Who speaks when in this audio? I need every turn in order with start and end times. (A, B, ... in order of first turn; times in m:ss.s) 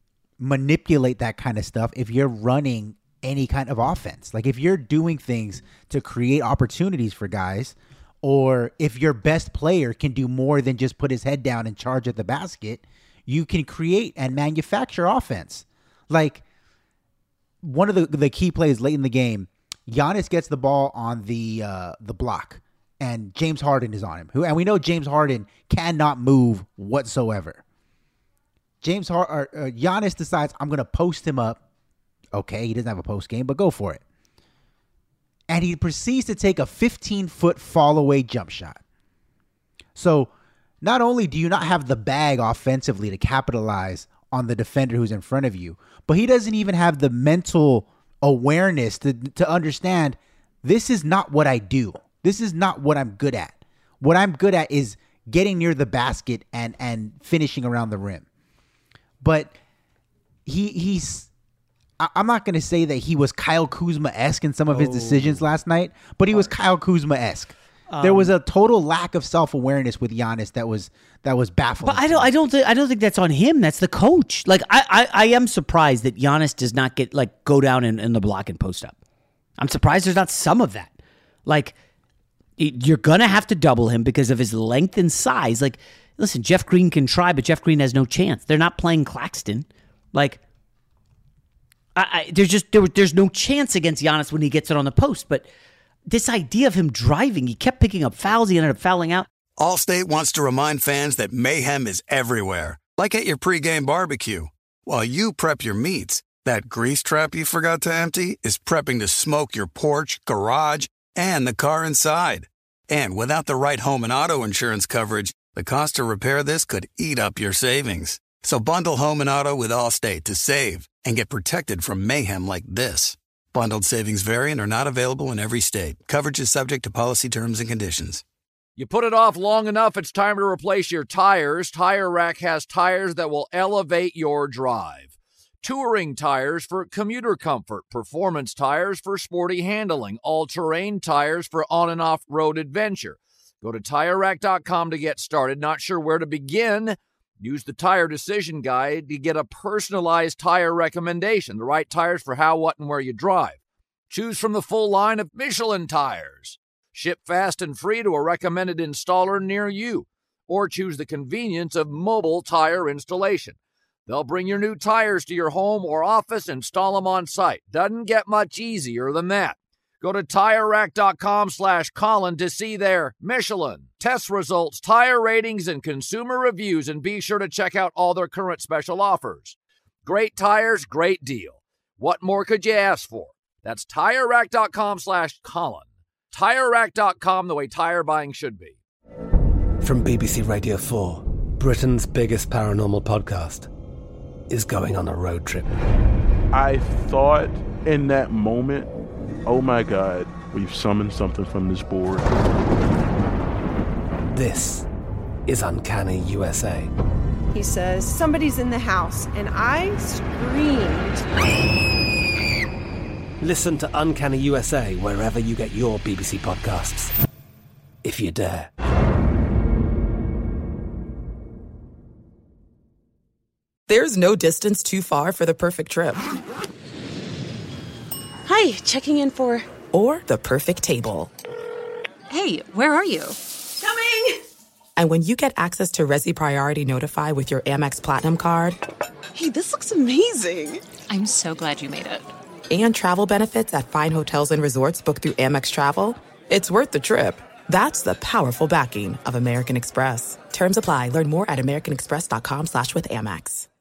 0:00.4-0:16.4 A
0:17.6-0:27.6 A
0:28.8-0:31.6 A
0:32.3-0:34.0 A
0:35.5-0:38.8 A
0:40.0-0:40.3 A
0:40.8-0:58.2 A
0:59.2-0:59.6 A
1:00.5-1:01.3 A
1:02.0-1:12.3 A
1:04.7-1:05.4 B
1:07.9-1:08.3 B
1:11.8-1:19.0 B
1:19.6-1:20.9 B
1:21.5-1:21.8 B
1:22.6-1:30.4 B
1:32.0-1:35.5 B
1:36.1-1:39.3 B
1:39.6-2:08.2 C
2:08.8-2:15.1 D
2:15.6-2:33.6 D
2:34.1-3:08.8 D
3:09.8-3:13.7 E
3:14.5-3:15.7 E
3:16.5-3:18.9 F
3:19.5-3:22.3 F
3:24.3-3:24.9 E
3:25.5-3:26.9 E
3:27.5-3:31.2 G
3:33.4-3:37.1 E
3:38.0-3:38.7 E
3:43.9-3:46.2 H
3:48.5-3:51.3 H
3:52.3-3:54.2 I
3:55.0-3:58.8 H
3:59.4-4:00.8 H
4:01.1-4:02.3 I
4:02.7-4:13.7 H